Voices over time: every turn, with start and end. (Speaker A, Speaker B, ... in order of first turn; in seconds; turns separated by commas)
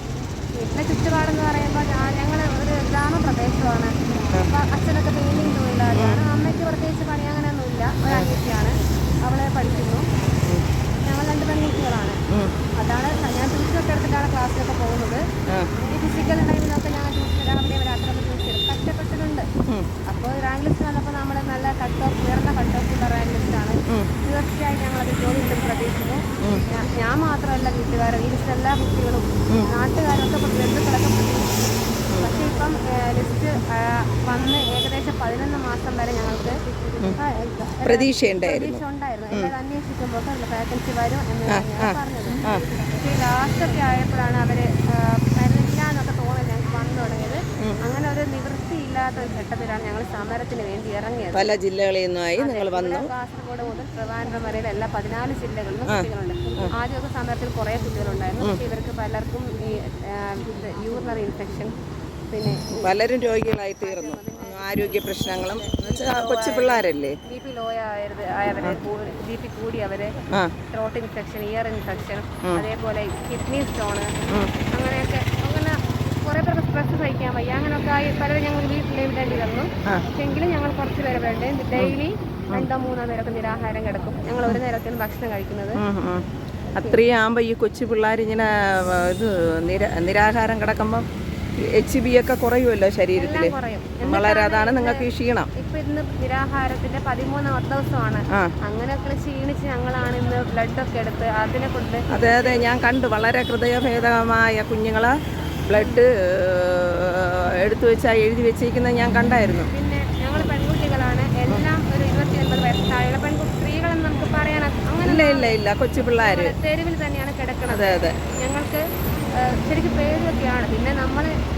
Speaker A: 0.6-3.9, Speaker A: 4.4-10.1, Speaker B: 5.9-6.2, Speaker A: 11.0-12.2, Speaker A: 12.8-15.2, Speaker A: 15.8-19.5, Speaker A: 20.1-31.5, Speaker A: 32.2-36.6, Speaker A: 37.2-51.5, Speaker B: 37.8-38.8, Speaker B: 41.5-42.6, Speaker B: 51.3-53.1, Speaker A: 52.4-61.7, Speaker A: 62.3-62.9, Speaker B: 62.7-67.2, Speaker A: 63.8-70.1, Speaker A: 70.7-85.8, Speaker B: 85.8-86.2, Speaker B: 86.8-91.0, Speaker B: 91.7-95.5, Speaker A: 93.1-102.5, Speaker B: 102.1-105.1, Speaker B: 105.7-109.7, Speaker A: 105.7-106.0, Speaker A: 109.7-115.6, Speaker B: 115.0-116.5, Speaker A: 116.1-118.8, Speaker B: 117.7-118.2, Speaker A: 119.3-121.3